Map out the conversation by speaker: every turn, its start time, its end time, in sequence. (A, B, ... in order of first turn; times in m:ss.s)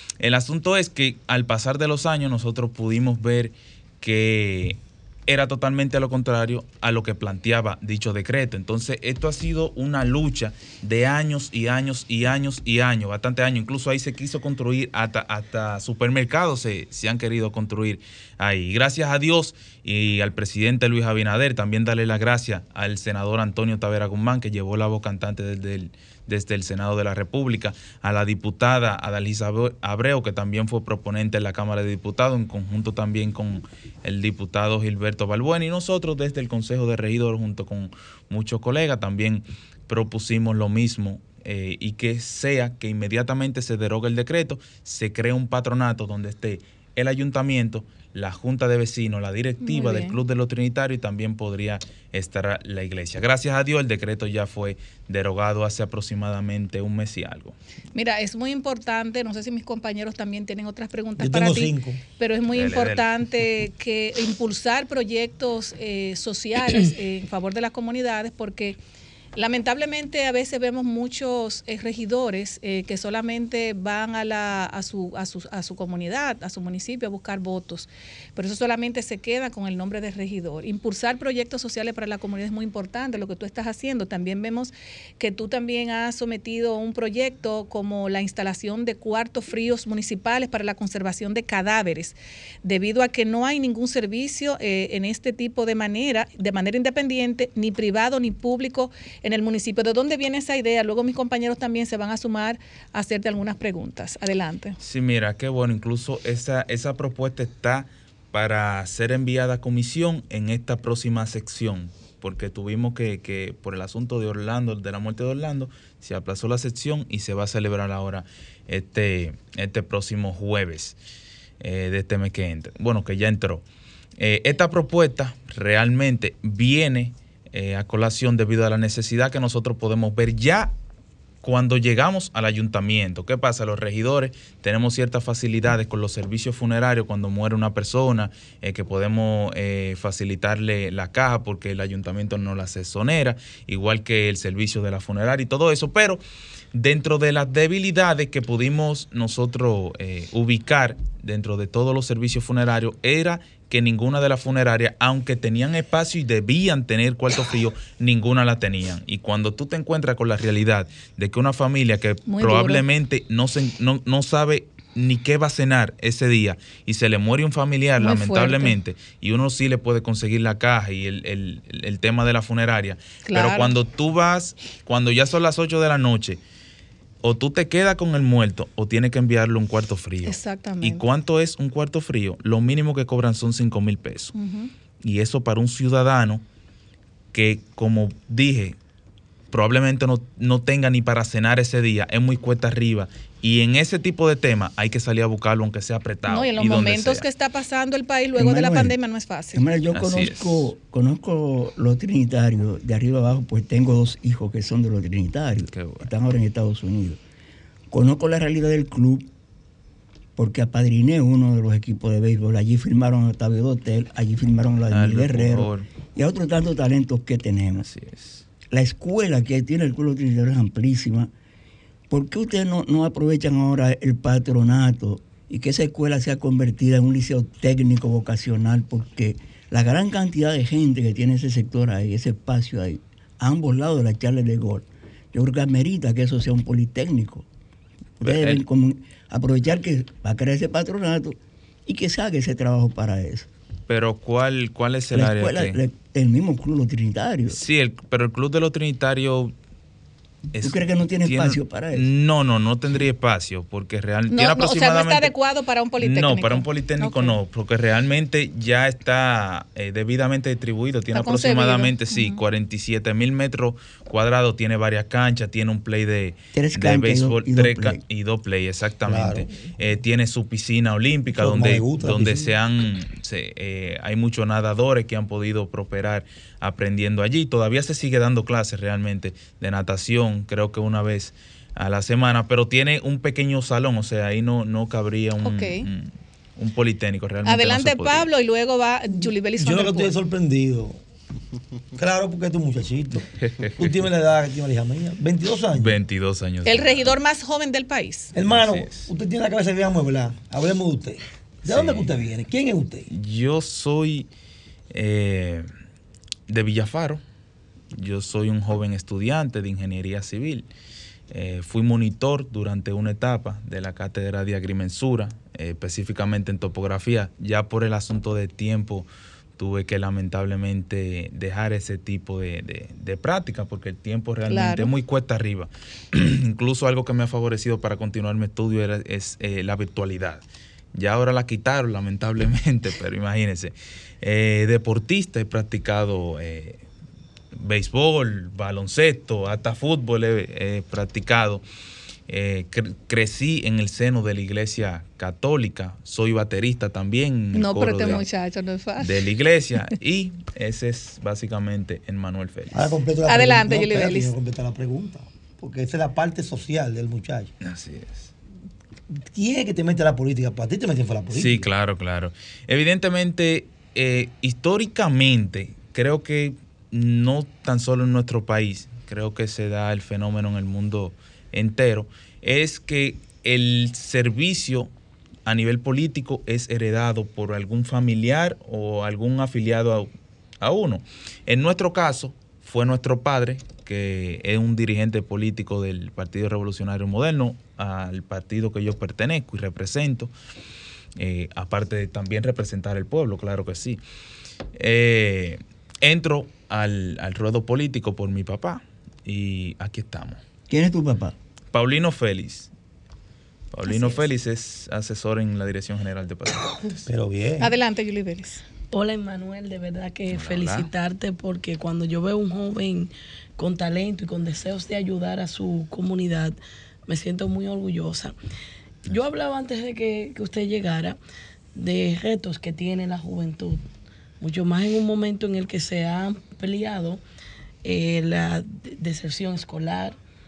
0:00.2-0:57.6 A
0:49.6-0:50.2 B
0:57.9-1:08.8 B
1:01.2-1:02.0 C
1:02.5-1:03.0 A
1:09.4-1:44.8 B
1:44.8-2:01.0 A
2:01.6-2:03.6 A
2:04.2-2:10.7 A
2:11.4-2:26.2 A
2:26.7-2:56.4 A
2:42.2-2:42.8 B
2:48.0-2:48.8 B
2:53.2-2:53.8 B
2:57.2-3:04.3 A
3:00.2-3:01.0 B
3:04.3-3:04.7 B
3:05.0-3:06.4 A
3:07.3-3:08.8 A
3:09.5-3:17.2 A
3:16.2-3:19.6 B
3:18.4-3:19.0 D
3:19.5-3:27.2 D
3:19.9-3:20.7 A
3:25.7-3:26.1 A
3:27.9-3:29.3 D
3:30.4-3:37.9 D
3:34.9-3:35.9 A
3:37.8-3:38.4 A
3:38.7-3:41.3 D
3:42.1-3:57.4 D
3:58.2-4:03.5 D
3:58.2-3:58.6 A
4:03.9-4:05.8 A
4:05.1-4:07.6 D
4:07.5-4:09.5 A
4:10.5-4:15.3 A
4:10.6-4:12.1 D
4:14.3-4:17.4 B
4:16.0-4:48.3 A
4:21.1-4:22.4 B
4:26.5-4:28.0 D
4:29.0-4:29.5 C
4:31.3-4:32.5 C
4:45.4-4:45.9 B
4:47.4-4:50.1 B
4:49.6-4:51.0 C
4:51.9-4:56.0 C
4:53.5-4:53.9 A
4:55.7-4:57.2 A
4:56.6-4:58.3 B
4:58.3-4:59.0 A
4:58.3-5:03.1 C
5:01.6-5:02.2 A
5:03.1-5:04.3 A
5:04.9-5:05.7 A
5:06.5-5:07.2 A
5:07.9-5:10.7 A
5:11.3-5:36.8 A
5:24.5-5:24.9 B
5:37.6-5:41.6 A
5:42.3-5:48.3 A
5:47.5-5:49.2 B
5:49.0-5:52.9 A
5:52.7-5:57.5 C
5:53.2-5:54.3 B
5:57.6-5:58.3 A
5:59.1-6:01.7 C
6:01.3-6:14.9 A
6:15.4-6:20.1 A
6:20.6-6:30.3 A
6:31.2-6:34.0 A
6:34.8-6:40.4 A
6:40.7-6:41.3 D
6:41.7-6:42.7 A
6:43.7-6:47.0 A
6:43.9-6:44.2 B
6:47.0-6:47.7 C
6:47.6-6:48.6 B
6:48.9-6:56.6 E
6:50.3-6:50.9 A
6:57.1-6:58.3 E
6:59.1-7:01.2 E
7:01.7-7:03.8 E
7:04.4-7:07.2 E
7:07.8-7:10.2 E